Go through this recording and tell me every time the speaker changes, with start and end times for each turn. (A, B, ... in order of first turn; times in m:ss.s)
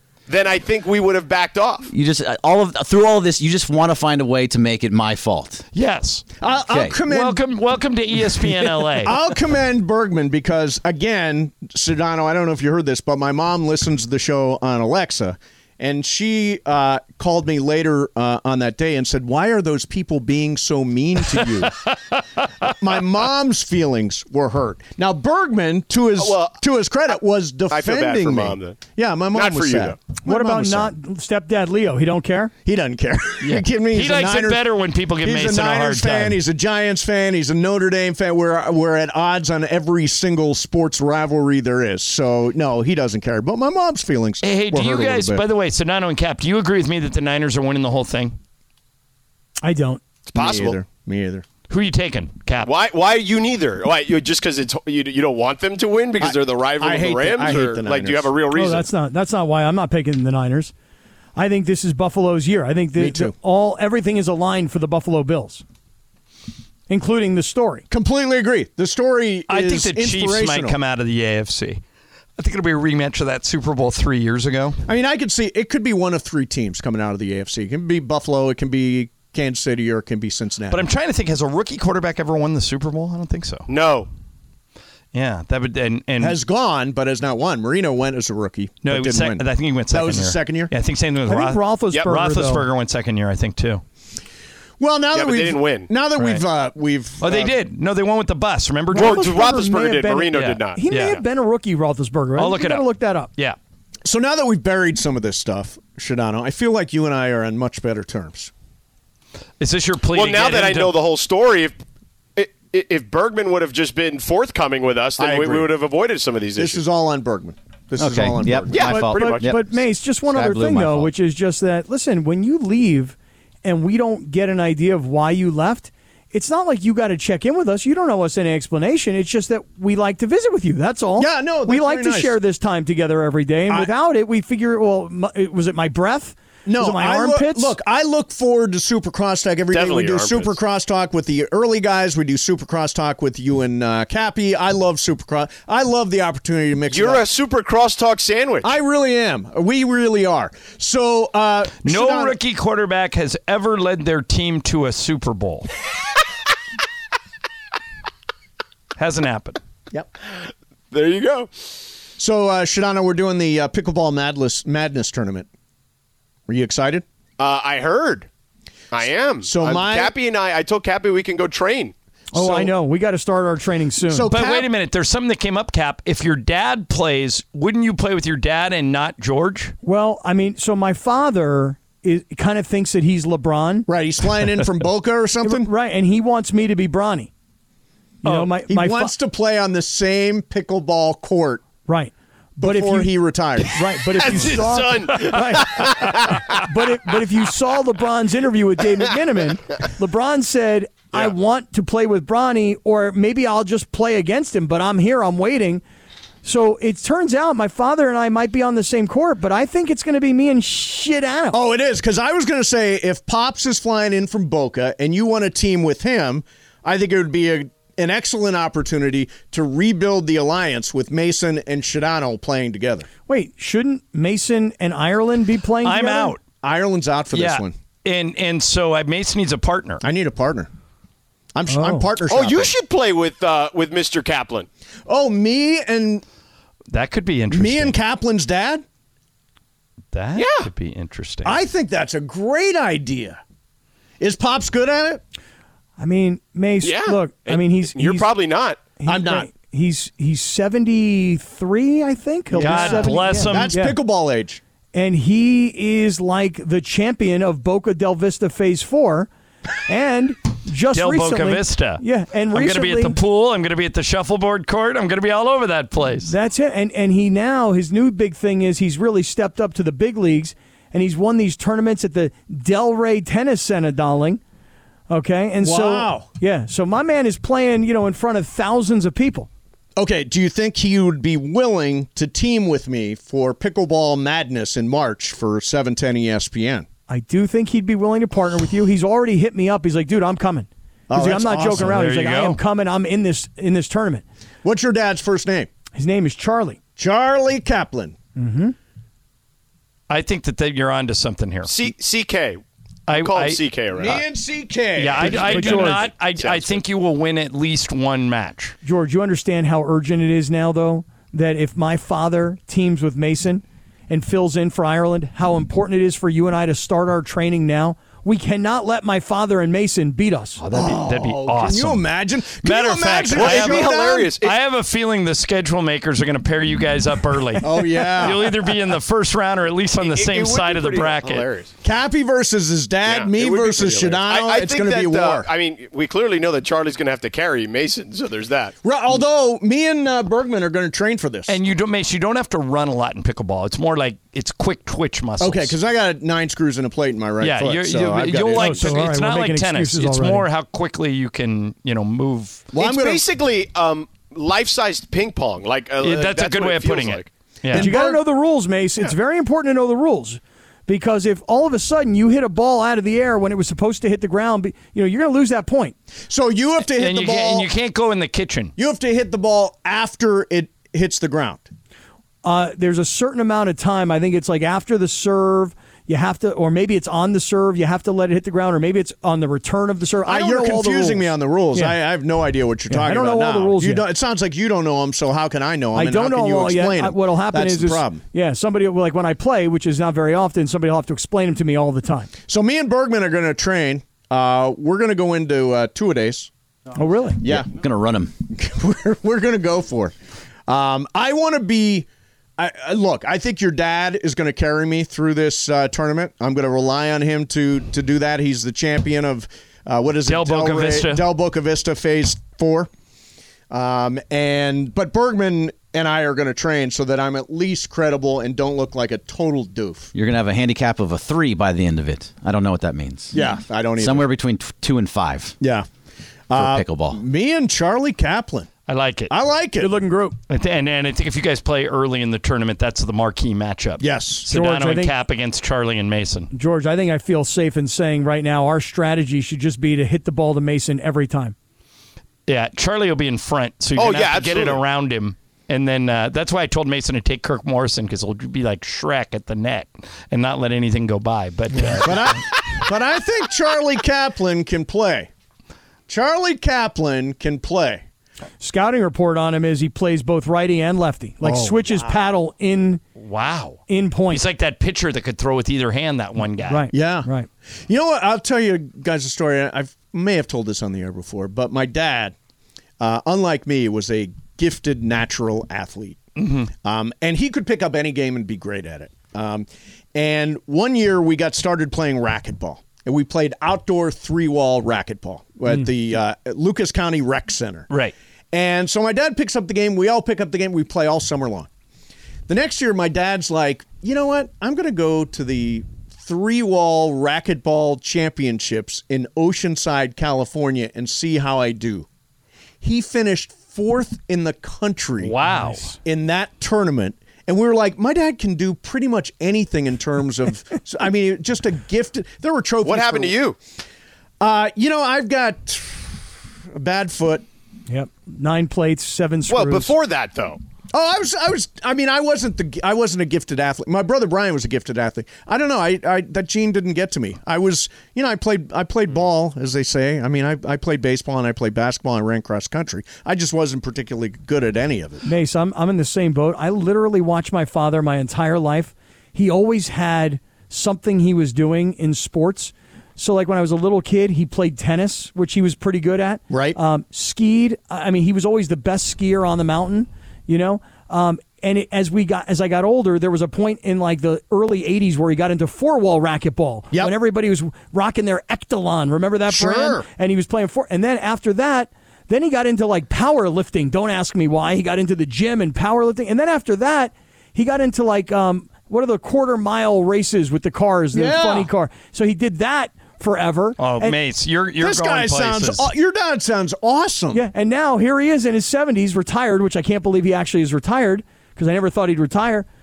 0:00.3-0:01.9 A
0:01.9-0:05.6 B
0:05.7-0:06.2 C
0:06.4-0:07.4 D
0:06.7-0:07.0 B
0:07.1-0:09.2 C
0:09.0-0:21.9 D
0:22.6-0:30.9 D
0:26.2-0:26.6 A
0:27.7-0:30.0 A
0:30.2-0:32.5 E
0:32.6-0:34.6 D
0:33.4-0:36.4 C
0:35.2-0:45.4 D
0:44.4-0:48.4 C
0:49.6-0:50.0 E
0:50.3-0:50.8 A
0:50.3-0:51.4 D
0:51.7-0:52.7 C
0:52.6-0:58.9 A
0:56.2-0:58.3 D
0:58.5-1:00.7 E
1:01.4-1:05.6 E
1:03.0-1:03.3 D
1:06.9-1:07.8 E
1:07.9-1:10.8 D
1:09.5-1:11.8 C
1:12.4-1:14.8 C
1:14.9-1:20.9 D
1:20.7-1:23.7 C
1:23.7-1:24.1 A
1:25.1-1:26.4 C
1:26.2-1:30.7 D
1:28.8-1:33.8 C
1:31.3-1:32.6 E
1:34.8-1:37.5 D
1:35.1-1:35.9 A
1:36.2-1:36.4 C
1:37.2-1:39.5 C
1:38.9-1:43.3 E
1:38.9-1:40.8 A
1:40.3-1:41.2 C
1:42.4-1:42.8 C
1:44.0-1:48.5 D
1:49.6-1:51.0 C
1:50.1-1:51.8 A
1:52.4-1:56.8 A
1:55.2-1:55.7 D
1:56.6-1:58.9 D
1:58.0-1:59.6 B
1:58.6-1:59.5 A
1:58.8-2:17.7 E
2:00.3-2:01.1 B
2:11.2-2:12.4 D
2:16.6-2:27.2 D
2:19.7-2:20.5 A
2:26.9-2:28.7 A
2:28.6-2:32.3 D
2:31.8-2:35.7 C
2:39.0-2:39.6 C
2:40.9-2:41.5 A
2:42.2-2:45.5 D
2:46.5-2:47.0 D
2:47.4-2:48.3 A
2:48.9-2:51.9 A
2:49.4-2:50.1 D
2:52.3-2:54.3 E
2:52.3-2:52.7 D
2:54.1-2:54.7 D
2:54.3-2:59.7 C
2:59.8-3:03.9 E
3:03.9-3:05.7 D
3:05.4-3:07.3 E
3:08.2-3:09.1 E
3:08.2-3:08.5 C
3:08.7-3:11.6 D
3:11.8-3:16.0 E
3:12.6-3:13.8 D
3:14.1-3:16.3 A
3:16.6-3:25.8 E
3:26.4-3:31.6 E
3:31.5-3:43.1 D
3:43.3-3:46.4 E
3:45.8-3:46.4 C
3:46.6-3:47.7 D
3:47.3-3:50.0 C
3:50.0-3:50.7 D
3:51.5-3:52.7 D
3:51.7-3:52.1 E
3:52.3-3:54.7 A
3:55.1-3:56.2 D
3:56.9-3:58.0 C
3:57.5-3:58.8 D
4:00.1-4:01.6 C
4:00.4-4:00.7 A
4:01.4-4:03.4 D
4:04.2-4:05.2 D
4:06.0-4:08.3 E
4:06.8-4:08.9 A
4:09.0-4:14.0 E
4:09.1-4:09.5 D
4:12.5-4:14.6 D
4:12.6-4:13.7 C
4:14.9-4:19.3 E
4:19.8-4:23.2 E
4:20.9-4:22.0 C
4:22.5-4:26.3 C
4:26.3-4:34.4 E
4:35.1-4:39.5 E
4:35.6-4:36.2 D
4:40.0-4:46.8 D
4:47.1-4:54.2 E
4:51.1-4:51.9 D
4:51.8-4:52.6 C
4:54.6-4:55.7 D
4:55.9-4:56.8 E
4:57.0-4:58.2 D
4:58.4-4:58.7 E
5:00.1-5:01.8 C
5:01.6-5:04.2 A
5:03.1-5:03.6 C
5:03.9-5:05.9 D
5:05.0-5:08.8 C
5:05.3-5:06.1 E
5:06.3-5:06.8 A
5:08.8-5:20.6 E
5:20.6-5:22.1 C
5:20.7-5:24.3 D
5:22.6-5:31.5 C
5:23.3-5:24.6 A
5:27.6-5:28.5 D
5:30.0-5:31.7 A
5:31.8-5:35.5 D
5:33.0-5:38.7 A
5:38.8-5:41.5 D
5:41.5-5:45.8 C
5:45.4-5:49.0 D
5:47.4-5:52.6 C
5:48.6-5:50.4 E
5:52.7-5:53.3 D
5:52.8-5:57.3 A
5:56.0-5:57.9 C
5:57.7-5:58.2 D
5:57.7-6:06.0 E
6:06.3-6:07.7 D
6:06.8-6:08.7 C
6:08.8-6:11.7 D
6:12.4-6:22.0 E
6:20.2-6:28.2 D
6:22.9-6:24.0 E
6:25.9-6:32.3 E
6:32.5-6:36.5 D
6:37.0-6:37.4 E
6:37.4-6:37.7 D
6:37.4-6:38.3 B
6:38.5-6:40.1 D
6:40.7-6:52.9 D
6:50.2-6:51.2 C
6:53.7-7:00.1 D
7:00.1-7:03.4 B
7:03.3-7:04.3 D
7:04.0-7:05.6 B
7:05.6-7:05.8 D
7:06.5-7:08.7 D
7:06.5-7:07.2 B
7:08.9-7:09.3 C
7:09.3-7:09.9 D
7:09.8-7:10.4 E
7:10.5-7:16.5 C
7:14.0-7:14.4 D
7:14.5-7:15.1 E
7:16.5-7:21.5 E
7:22.5-7:32.4 C
7:24.0-7:24.8 A
7:31.7-7:32.0 E
7:32.0-7:35.3 D
7:36.1-7:38.0 D
7:38.6-7:43.0 E
7:41.4-7:42.2 D
7:43.2-7:46.8 C
7:43.9-7:44.4 E
7:46.7-7:47.5 E
7:46.9-7:47.3 D
7:47.8-7:52.3 D
7:53.0-7:56.2 D
7:56.4-7:56.7 C
7:56.8-8:07.9 D
8:08.5-8:11.7 D
8:12.5-8:22.0 D
8:22.8-8:25.3 D
8:25.2-8:25.9 C
8:25.5-8:25.9 E
8:26.0-8:33.4 D
8:32.8-8:33.6 A
8:34.4-8:36.2 D
8:36.7-8:37.4 D
8:37.9-8:39.9 E
8:39.5-8:40.6 A
8:40.9-8:55.2 D
8:55.2-9:34.2 E
9:06.5-9:06.8 D
9:19.5-9:20.0 D
9:31.1-9:31.7 D
9:33.8-9:35.9 C
9:34.8-9:37.4 D
9:37.3-9:42.6 E